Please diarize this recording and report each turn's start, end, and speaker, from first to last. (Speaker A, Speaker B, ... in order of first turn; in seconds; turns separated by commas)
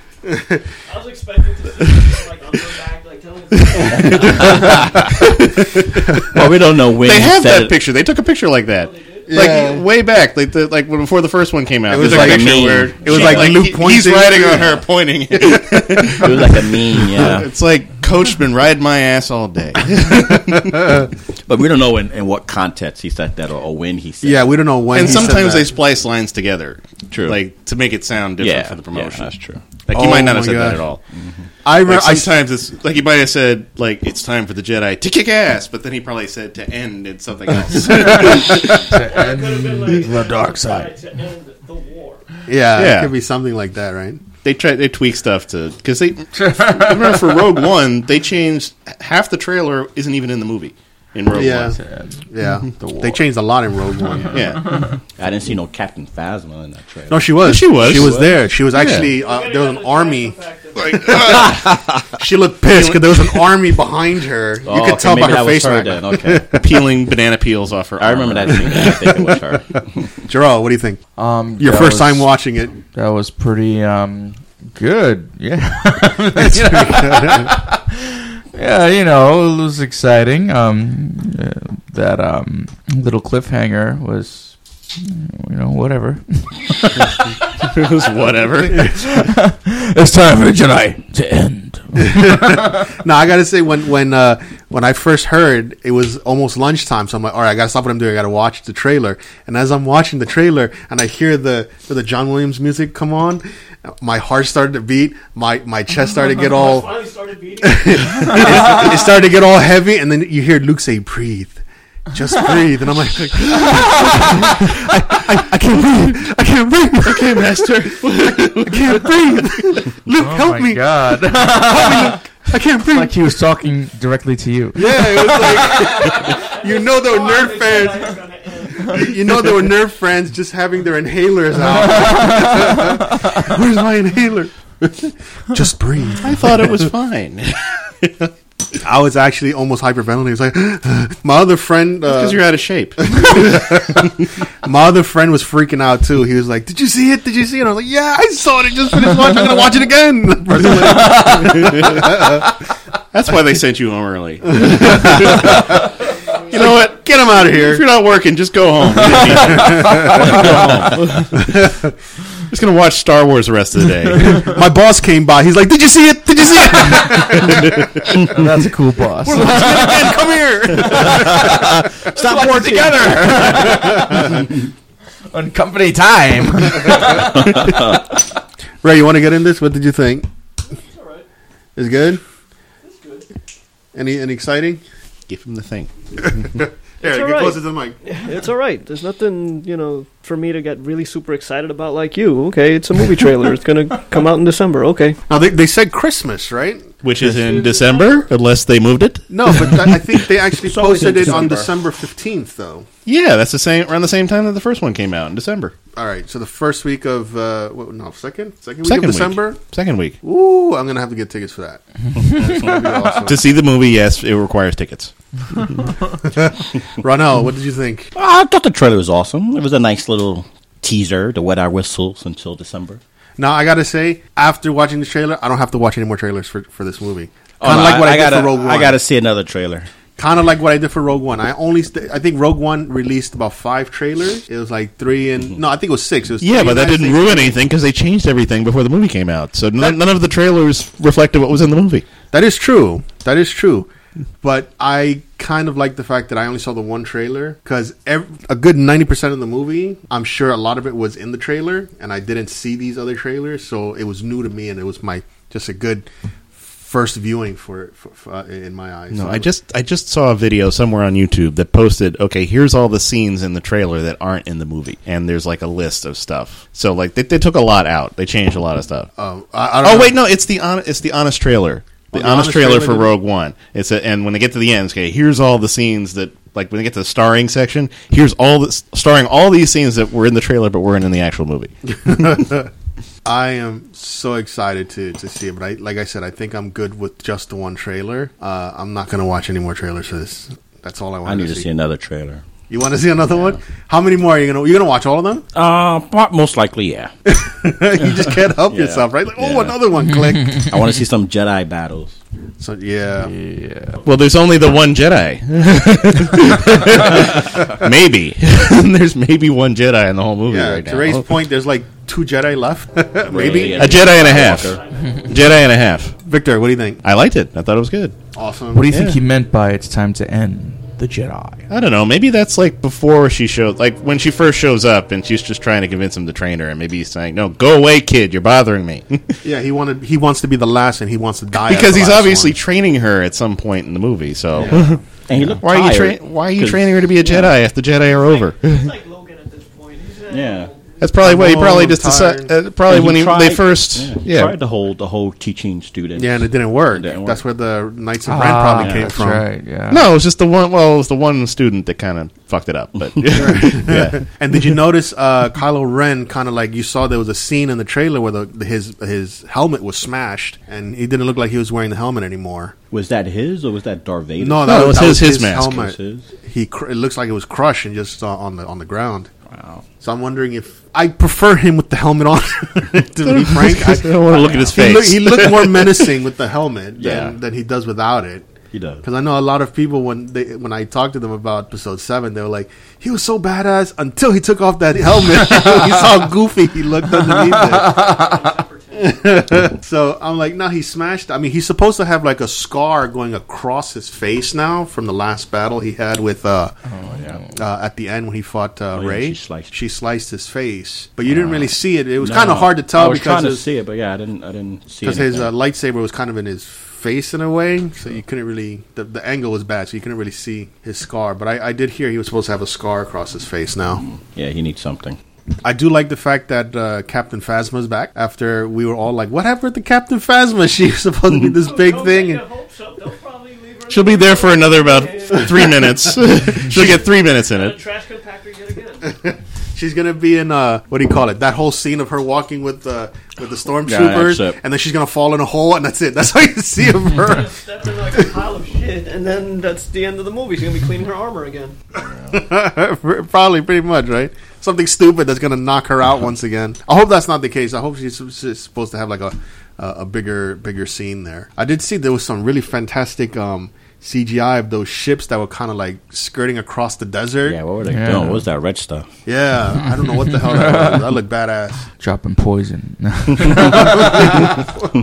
Speaker A: 0.3-0.6, Speaker B: 0.8-5.3, Speaker C: 4.4-4.8, Speaker C: 6.3-7.8, Speaker D: 7.0-20.9, Speaker B: 8.7-9.5, Speaker A: 9.3-9.8, Speaker A: 11.9-16.2, Speaker C: 11.9-13.5, Speaker C: 16.2-17.5, Speaker A: 20.2-20.5, Speaker C: 21.4-25.5, Speaker A: 24.2-25.7, Speaker D: 24.9-29.3, Speaker C: 27.1-27.4, Speaker C: 28.4-29.6, Speaker D: 29.8-31.0, Speaker A: 29.9-30.8, Speaker C: 31.1-31.4, Speaker A: 31.6-32.3, Speaker D: 31.8-38.6, Speaker A: 37.8-38.8, Speaker E: 37.9-40.9, Speaker B: 38.8-42.4, Speaker A: 42.5-44.2, Speaker D: 42.7-43.1, Speaker D: 44.4-51.8, Speaker E: 46.3-47.4, Speaker A: 51.3-54.6, Speaker E: 51.8-52.2, Speaker D: 54.2-54.8, Speaker E: 54.6-54.9, Speaker C: 55.2-58.5, Speaker A: 57.1-60.3, Speaker D: 57.4-59.1, Speaker B: 59.0-61.4, Speaker D: 60.8-61.6, Speaker A: 60.9-66.7, Speaker C: 64.6-66.5, Speaker D: 66.5-68.9, Speaker C: 68.0-70.1, Speaker A: 68.6-69.4, Speaker A: 70.2-71.0, Speaker E: 71.2-72.3, Speaker A: 71.6-72.8, Speaker E: 72.9-87.8, Speaker A: 76.4-77.5, Speaker D: 87.6-88.9, Speaker E: 88.7-92.8, Speaker A: 92.0-106.9, Speaker B: 106.2-109.1, Speaker A: 107.6-123.2, Speaker E: 113.3-115.3, Speaker D: 117.0-119.0, Speaker E: 120.2-122.2, Speaker E: 122.8-126.4, Speaker A: 124.8-128.2, Speaker B: 125.5-129.2, Speaker A: 128.8-136.9, Speaker E: 131.7-133.4, Speaker D: 136.2-138.1, Speaker A: 138.8-142.4, Speaker D: 142.1-143.8, Speaker A: 143.0-152.5, Speaker D: 150.8-152.5, Speaker D: 153.1-155.8, Speaker A: 154.5-155.9, Speaker D: 156.5-161.6, Speaker A: 156.5-157.8, Speaker E: 159.1-160.5, Speaker A: 159.4-160.6, Speaker A: 161.3-161.9, Speaker D: 162.5-164.5, Speaker A: 164.2-168.4, Speaker D: 166.9-167.8, Speaker E: 168.2-174.6, Speaker D: 169.2-171.2, Speaker A: 169.3-171.7, Speaker C: 170.9-173.9, Speaker A: 173.8-174.5, Speaker E: 175.3-177.8, Speaker C: 177.5-178.0, Speaker A: 178.8-180.3, Speaker B: 180.7-181.2, Speaker A: 181.8-182.2, Speaker B: 182.8-183.3, Speaker A: 183.9-184.8, Speaker D: 185.3-185.9, Speaker A: 186.2-188.0, Speaker B: 187.0-195.2, Speaker A: 195.3-196.9, Speaker D: 197.0-200.2, Speaker B: 197.3-198.3, Speaker A: 199.3-202.9, Speaker B: 200.6-201.7, Speaker D: 203.1-205.7, Speaker A: 205.9-209.6, Speaker D: 208.8-210.2, Speaker A: 210.2-213.4, Speaker D: 213.2-215.1, Speaker A: 216.2-218.1, Speaker C: 218.1-223.0, Speaker A: 223.4-229.0, Speaker C: 227.6-229.9, Speaker A: 230.2-237.6, Speaker D: 236.4-242.1, Speaker A: 242.3-243.9, Speaker A: 244.4-259.5, Speaker D: 259.1-269.1, Speaker A: 269.1-270.2, Speaker D: 269.8-282.4, Speaker A: 272.1-273.1, Speaker A: 282.0-282.7, Speaker A: 283.2-291.7, Speaker C: 291.2-292.4, Speaker A: 292.7-295.4, Speaker C: 293.3-293.6, Speaker C: 295.5-297.1, Speaker A: 297.2-300.6, Speaker C: 298.1-299.8, Speaker C: 300.6-302.1, Speaker A: 302.6-303.3, Speaker E: 303.2-304.0, Speaker D: 304.0-311.3, Speaker A: 310.5-313.9, Speaker C: 313.3-314.8, Speaker B: 313.4-315.6, Speaker D: 313.7-316.1, Speaker A: 316.2-317.0, Speaker D: 317.0-318.1, Speaker A: 318.3-318.9, Speaker E: 318.7-321.7, Speaker D: 318.9-319.2, Speaker D: 321.7-329.4, Speaker A: 329.4-332.6, Speaker D: 331.5-338.9, Speaker C: 334.5-337.6, Speaker A: 334.6-334.9, Speaker B: 338.0-341.0, Speaker C: 340.3-340.7, Speaker D: 341.0-344.6, Speaker A: 341.2-342.5, Speaker C: 342.9-347.4, Speaker A: 346.1-349.4, Speaker E: 348.2-350.1, Speaker C: 348.8-349.1, Speaker D: 349.9-354.2, Speaker A: 353.3-362.7, Speaker C: 362.9-366.3, Speaker A: 364.4-369.3, Speaker D: 364.6-365.8, Speaker C: 369.5-369.8, Speaker A: 370.0-378.4, Speaker D: 373.2-376.1, Speaker C: 374.3-375.0, Speaker C: 377.0-377.4, Speaker C: 378.7-379.0, Speaker A: 379.0-388.2, Speaker E: 385.6-385.8, Speaker E: 387.1-388.5, Speaker B: 387.7-389.4, Speaker A: 388.9-396.8, Speaker E: 396.9-397.5, Speaker C: 397.0-397.4, Speaker A: 397.5-403.6, Speaker C: 398.9-399.7, Speaker C: 401.3-405.5, Speaker A: 405.0-414.0, Speaker C: 414.0-415.2, Speaker A: 415.6-422.4, Speaker B: 421.5-429.1, Speaker D: 423.9-427.8, Speaker A: 429.0-437.5, Speaker C: 433.8-434.6, Speaker B: 437.2-441.8, Speaker C: 442.0-442.4, Speaker A: 442.3-457.6, Speaker C: 457.4-459.1, Speaker E: 457.8-458.4, Speaker A: 459.2-461.9, Speaker E: 459.9-461.1, Speaker E: 462.0-464.5, Speaker C: 463.4-463.9, Speaker A: 463.7-464.7